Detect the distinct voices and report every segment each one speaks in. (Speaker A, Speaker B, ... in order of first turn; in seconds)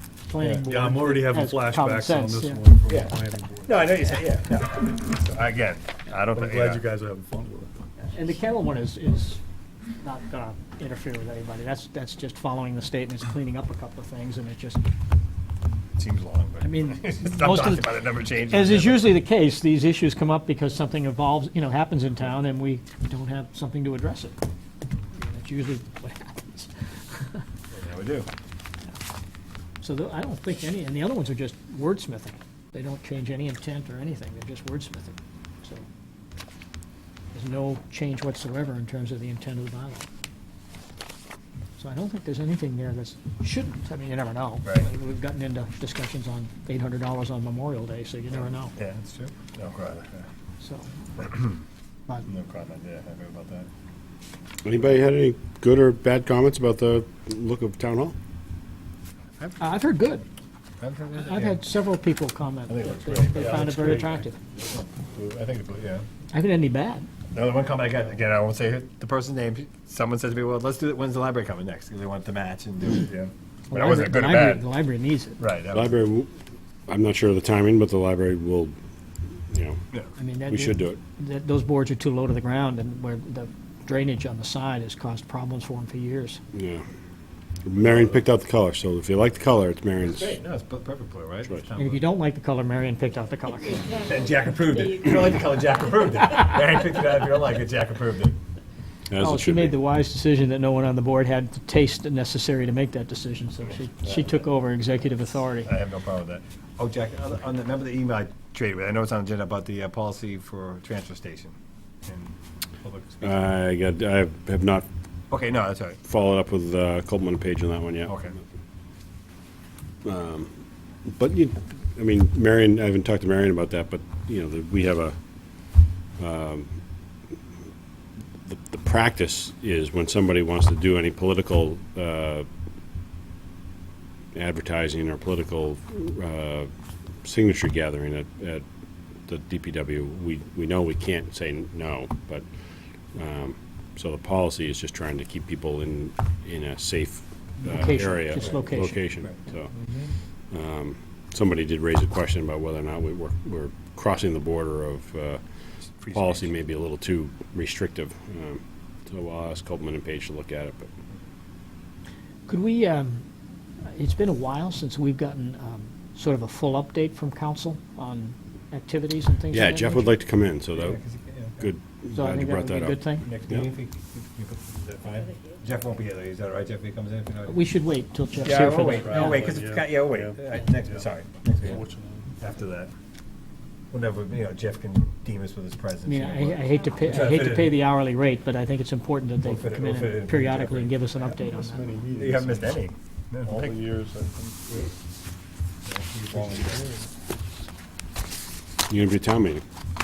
Speaker A: 0.3-2.6, 8.0-9.4, 10.0-14.8, 16.6-24.4, 25.1-27.4, 29.8-35.9, 37.3-40.1, 41.8-48.7, 50.6-50.9, 59.6-60.2, 61.1-64.4, 66.3-67.1, 73.7-75.4, 80.2-86.4, 91.8-94.0, 99.2-105.7, 147.6-149.0, 162.5-163.2, 163.9-170.2, 172.1-173.3, 177.4-179.4, 186.1-191.9
Speaker B: 0.5-4.0, 6.3-7.7, 63.4-64.1, 178.5-182.3, 191.2-192.8, 193.4-194.9, 196.3-197.1
Speaker C: 3.7-6.9, 16.0-19.1, 27.7-28.3, 48.3-50.2, 51.2-51.6, 52.3-53.7, 59.4-59.8, 60.8-61.6, 62.7-66.1, 67.3-74.7, 75.4-76.0, 87.8-88.1, 90.0-92.0, 94.0-98.4, 104.0-104.5, 105.6-111.6, 112.1-113.5, 115.3-116.0, 118.1-118.3, 149.2-150.1, 155.9-156.6, 170.8-171.6, 173.3-177.5, 178.4-181.8, 182.4-182.9, 183.9-187.8, 189.4-190.9, 192.2-193.8, 195.9-196.9
Speaker D: 54.6-58.1, 75.7-76.3, 76.9-78.7, 79.5-79.8, 80.5-81.0, 86.5-86.8, 87.7-90.4, 99.1-99.8, 113.2-114.9, 116.0-118.4, 120.0-120.5, 121.0-125.2, 126.2-126.7, 128.4-132.5, 134.3-136.7, 137.2-138.6, 139.3-142.5, 143.1-149.7, 150.5-155.4, 156.1-160.9, 169.5-171.0, 171.6-173.7, 198.9-199.6